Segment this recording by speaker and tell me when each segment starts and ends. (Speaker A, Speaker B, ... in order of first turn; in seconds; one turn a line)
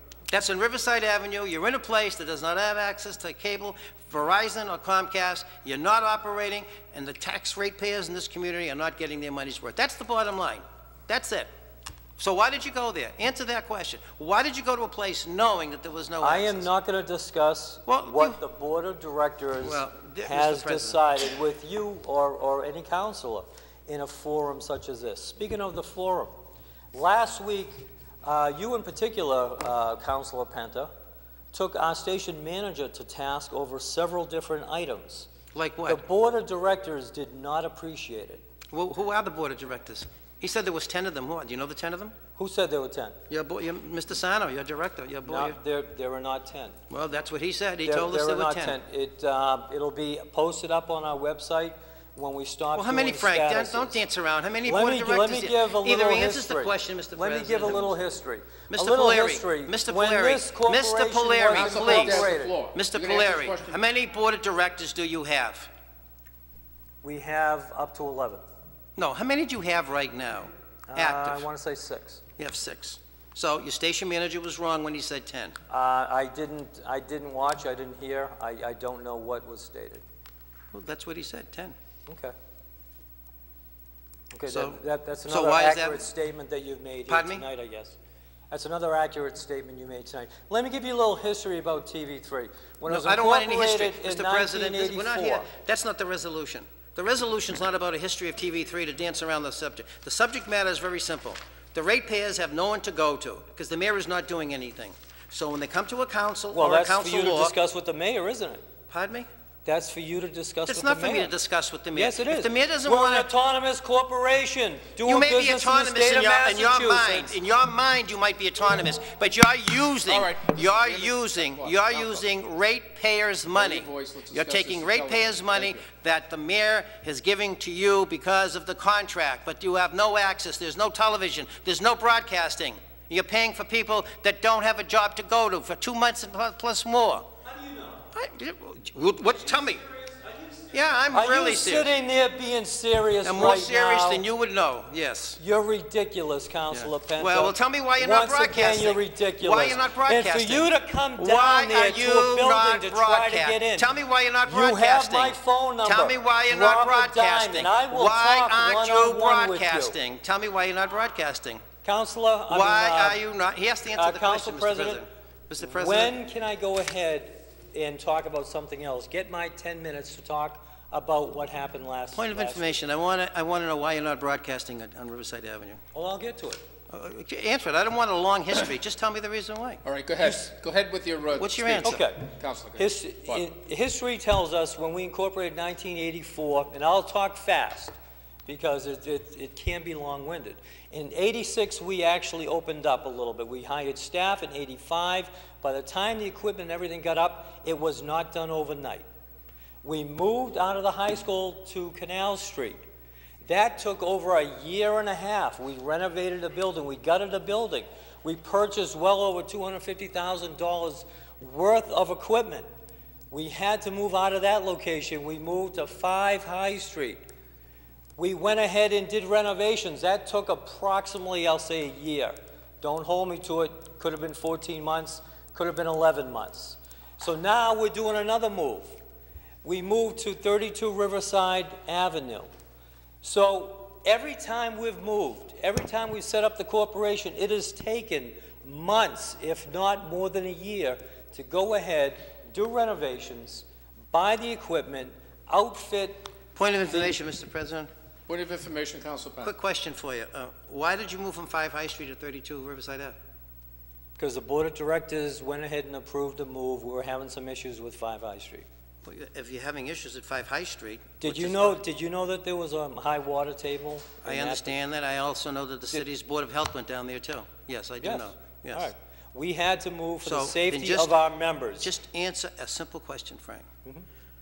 Speaker A: 0.3-11.5
Speaker A: 12.2-16.7
Speaker B: 16.2-26.3
Speaker A: 17.9-18.4
Speaker A: 19.6-21.2
Speaker B: 26.9-30.9
Speaker B: 31.5-35.3
Speaker A: 35.5-36.0
Speaker B: 35.9-38.4
Speaker A: 38.7-42.1
Speaker B: 42.4-43.2
Speaker A: 43.3-45.6
Speaker B: 45.3-46.8
Speaker A: 46.9-48.8
Speaker B: 47.9-54.0
Speaker A: 52.7-58.0
Speaker B: 54.7-62.6
Speaker A: 58.7-65.7
Speaker C: 61.5-63.8
Speaker B: 67.0-68.4
Speaker A: 69.0-71.5
Speaker B: 70.9-72.2
Speaker A: 72.4-75.6
Speaker B: 75.7-80.0
Speaker A: 80.7-81.8
Speaker B: 82.1-82.3
Speaker B: 84.3-88.0
Speaker A: 84.5-86.0
Speaker A: 87.1-87.5
Speaker B: 88.5-95.5
Speaker A: 92.9-107.5
Speaker B: 106.5-108.6
Speaker A: 108.9-109.3
Speaker B: 109.7-111.3
Speaker A: 110.7-113.3
Speaker B: 111.9-117.4
Speaker A: 115.0-137.3
Speaker C: 120.1-122.3
Speaker C: 123.5-125.8
Speaker B: 137.4-138.0
Speaker A: 138.1-139.8
Speaker B: 139.5-144.2
Speaker A: 140.7-141.9
Speaker A: 143.2-145.4
Speaker B: 145.4-153.9
Speaker A: 146.7-161.6
Speaker B: 154.5-160.0
Speaker B: 161.8-163.2
Speaker A: 162.5-166.1
Speaker B: 163.9-165.0
Speaker B: 165.6-172.8
Speaker A: 172.2-175.8
Speaker B: 175.9-176.6
Speaker A: 176.9-179.8
Speaker C: 179.8-183.4
Speaker A: 181.4-182.0
Speaker B: 181.8-187.9
Speaker B: 188.5-199.1
Speaker B: 199.8-202.8
Speaker B: 203.4-212.7
Speaker B: 213.3-217.2
Speaker B: 218.2-229.0
Speaker B: 229.6-232.5
Speaker B: 233.2-246.3
Speaker A: 246.6-247.9
Speaker B: 246.9-247.1
Speaker C: 248.3-249.5
Speaker A: 249.4-253.2
Speaker B: 254.2-258.7
Speaker A: 259.0-261.8
Speaker B: 261.2-264.8
Speaker A: 264.2-268.9
Speaker B: 268.0-271.9
Speaker A: 270.2-271.2
Speaker A: 271.8-273.7